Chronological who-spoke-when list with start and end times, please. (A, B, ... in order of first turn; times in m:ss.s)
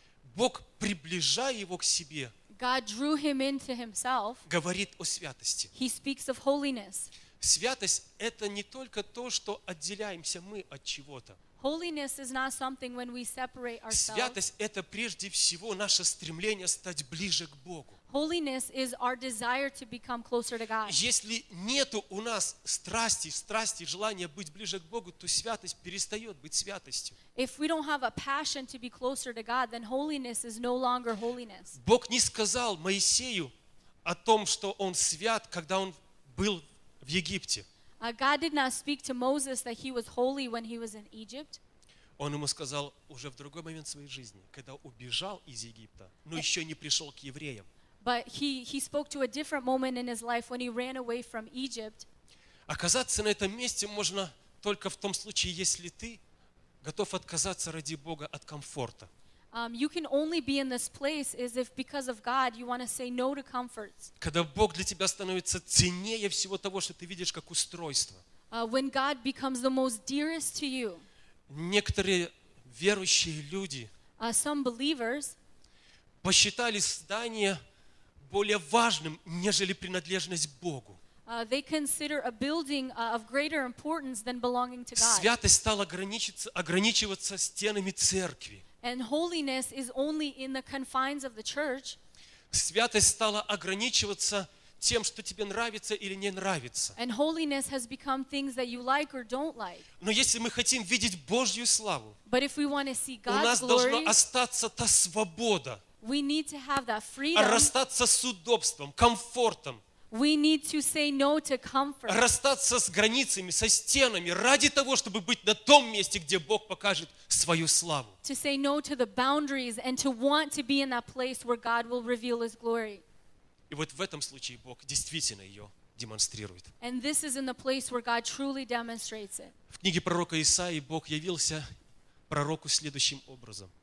0:00.2-0:02.4 A
0:02.5-0:04.4 B
0:04.5-0:05.7 A
0:05.7-0:07.1 B
0:07.4-0:11.4 A
0:11.6-0:14.4 B
0:13.9-0:18.0 A
0:18.1-0:21.0 B
0:20.9-0:27.2 A
0:27.4-0:31.8 B
0:31.8-0:33.5 A
0:34.0-0:37.7 A
0:38.0-0:41.6 B
0:42.2-0:47.7 A
0:48.0-0:52.1 B
0:52.7-0:56.2 A
0:56.8-0:59.1 A
0:59.5-1:04.1 B
1:04.2-1:08.2 A
1:08.5-1:11.1 B
1:11.5-1:13.9 A
1:14.2-1:15.4 B
1:16.2-1:17.6 A
1:18.2-1:21.0 A
1:21.3-1:25.3 B
1:25.0-1:28.6 A
1:28.8-1:32.0 B
1:32.5-1:37.0 A
1:37.0-1:39.8 B
1:40.0-1:42.2 A
1:42.3-1:44.2 B
1:43.3-1:45.8 A
1:46.0-1:47.7 B
1:47.3-1:49.8 A
1:50.1-1:52.2 B
1:52.1-1:58.2 A
1:58.2-2:03.0 B
2:03.7-2:06.7 A
2:06.8-2:09.6 B
2:09.7-2:11.7 A
2:12.3-2:13.7 A